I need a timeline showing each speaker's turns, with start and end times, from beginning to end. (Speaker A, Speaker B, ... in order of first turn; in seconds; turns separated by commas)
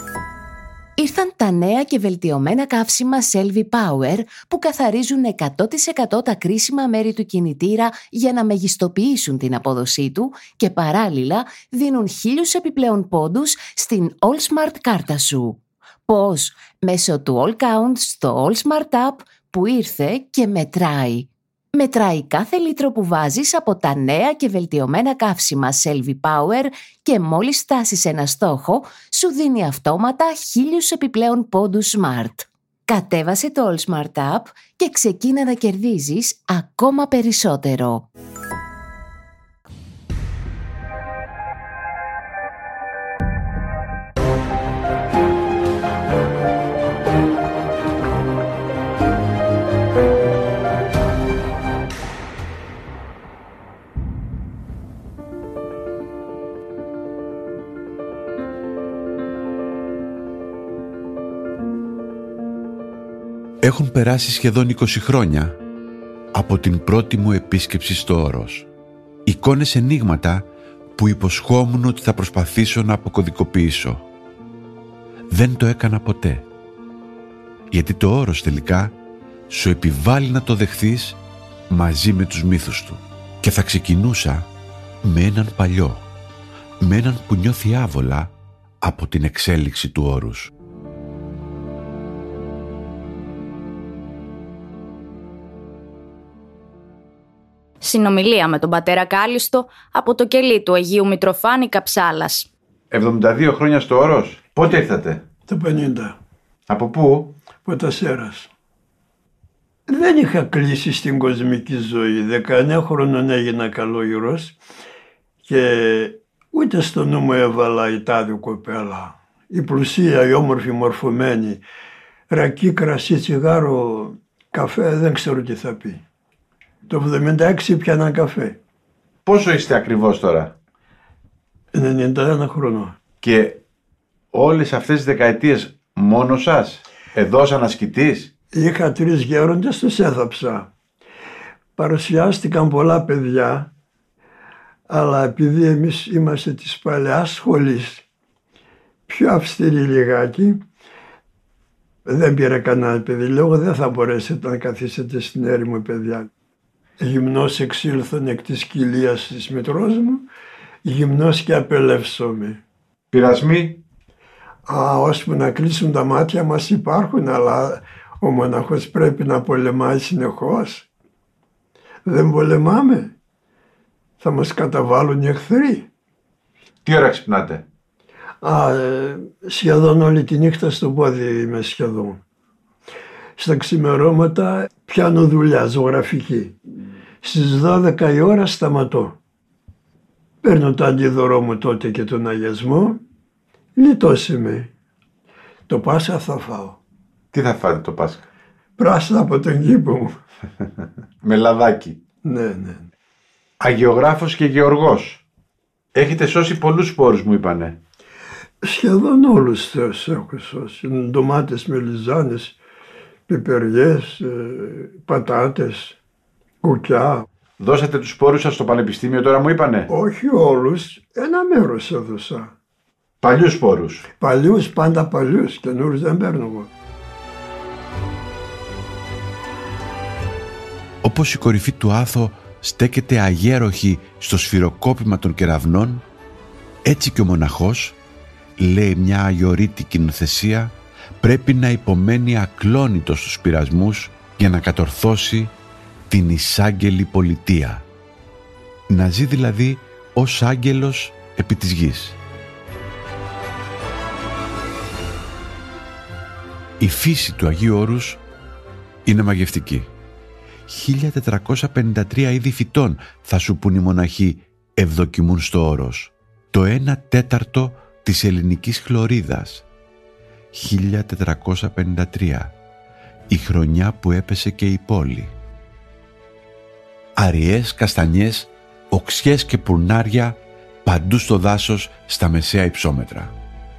Speaker A: 1.0-38.1, Speaker B: 63.6-65.6, Speaker B: 66.3-68.7, Speaker B: 69.2-74.0, Speaker B: 75.3-76.5, Speaker B: 77.7-78.9, Speaker B: 79.5-81.2, Speaker B: 81.7-84.5, Speaker B: 85.0-86.1, Speaker B: 86.8-88.3, Speaker B: 88.8-90.5, Speaker C: 97.8-102.5, Speaker D: 102.9-105.2, Speaker E: 105.5-106.2, Speaker D: 106.7-107.3, Speaker E: 107.7-108.5, Speaker E: 109.9-114.6, Speaker E: 115.4-121.6, Speaker E: 122.3-126.0, Speaker E: 126.8-128.6, Speaker D: 129.2-130.5, Speaker E: 131.7-133.0, Speaker D: 133.2-133.6, Speaker D: 134.3-138.3, Speaker E: 138.5-140.7, Speaker E: 141.8-143.7, Speaker E: 144.9-148.0, Speaker E: 149.1-150.6, Speaker E: 152.1-156.3, Speaker E: 157.0-160.2, Speaker E: 160.8-162.6, Speaker D: 163.1-163.8, Speaker E: 164.6-170.8, Speaker E: 172.1-173.1, Speaker E: 174.2-175.9, Speaker D: 176.8-177.6, Speaker E: 178.4-182.2, Speaker E: 183.4-186.6, Speaker E: 187.2-189.2, Speaker E: 190.4-193.0, Speaker E: 193.8-194.7, Speaker E: 195.7-196.8, Speaker D: 197.3-198.3, Speaker E: 198.8-200.2, Speaker D: 201.2-202.0, Speaker E: 202.2-202.9, Speaker D: 203.6-205.2, Speaker D: 205.9-207.8, Speaker E: 208.6-212.5, Speaker E: 213.3-215.9, Speaker E: 216.6-217.2, Speaker D: 217.6-219.9, Speaker E: 219.9-222.5, Speaker D: 223.2-224.0, Speaker E: 224.2-226.7, Speaker B: 231.0-236.0, Speaker B: 236.8-237.9, Speaker B: 238.6-245.5, Speaker B: 246.1-247.8, Speaker B: 248.9-252.2, Speaker B: 256.8-258.2, Speaker B: 259.1-259.9, Speaker B: 260.7-269.6, Speaker B: 270.5-272.5, Speaker B: 273.3-275.3, Speaker B: 277.2-283.3